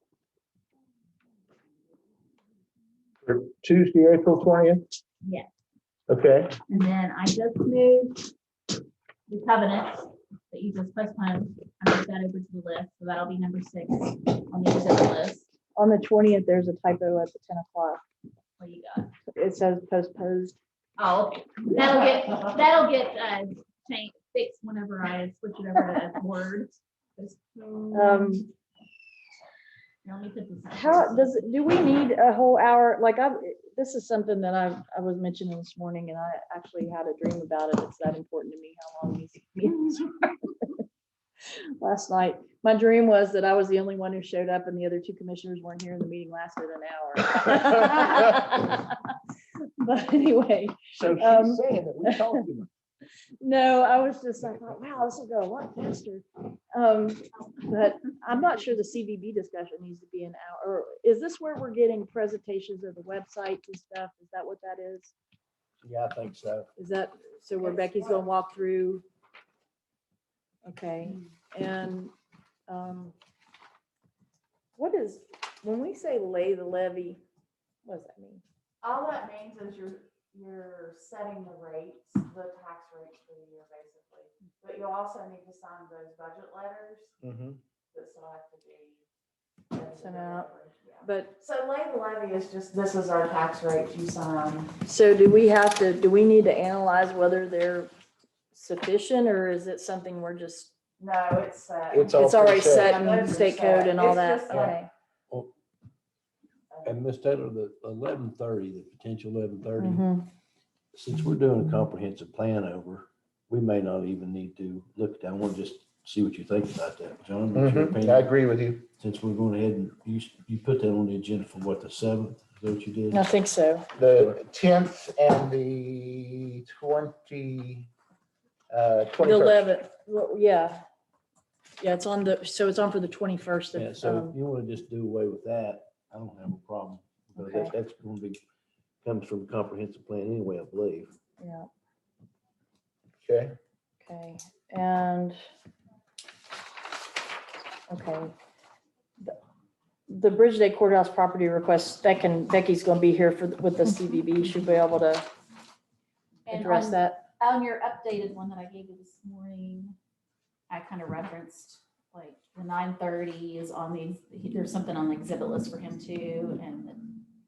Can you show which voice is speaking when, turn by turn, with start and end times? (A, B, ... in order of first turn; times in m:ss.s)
0:03.2-0:04.8 A
0:05.2-0:05.5 B
0:06.1-0:06.6 A
0:06.7-0:08.3 B
0:09.3-0:15.5 B
0:15.7-0:18.0 C
0:18.6-0:19.1 B
0:19.3-0:20.6 C
0:21.0-0:28.4 B
0:27.9-0:28.5 C
0:30.0-0:31.4 B
0:30.7-0:40.7 C
0:41.5-0:49.0 C
0:49.6-0:52.4 C
0:51.0-0:52.7 A
0:53.4-1:05.1 C
1:05.8-1:06.7 D
1:06.8-1:09.0 C
1:07.6-1:08.3 E
1:10.6-1:12.1 C
1:12.7-1:13.1 C
1:14.8-1:17.2 C
1:17.8-1:18.4 C
1:18.8-1:27.1 E
1:27.2-1:27.6 D
1:27.9-1:29.0 E
1:29.7-1:34.8 E
1:29.9-1:31.4 C
1:34.8-1:37.9 C
1:38.5-1:40.8 C
1:41.0-1:44.8 E
1:41.9-1:43.0 A
1:42.1-1:44.9 C
1:46.8-1:50.1 D
1:49.8-1:50.3 C
1:50.9-1:58.3 D
1:57.5-1:58.8 A
1:59.0-2:03.3 D
2:03.1-2:03.9 C
2:03.9-2:07.9 A
2:08.7-2:09.7 A
2:09.2-2:10.8 C
2:11.8-2:14.3 C
2:13.7-2:18.4 D
2:17.4-2:17.7 C
2:19.0-2:21.1 D
2:21.4-2:21.7 C
2:23.2-2:23.6 A
2:24.0-2:25.4 C
2:27.9-2:28.3 C
2:30.1-2:35.3 C
2:36.5-2:40.0 B
2:36.5-2:37.2 C
2:40.7-2:47.1 B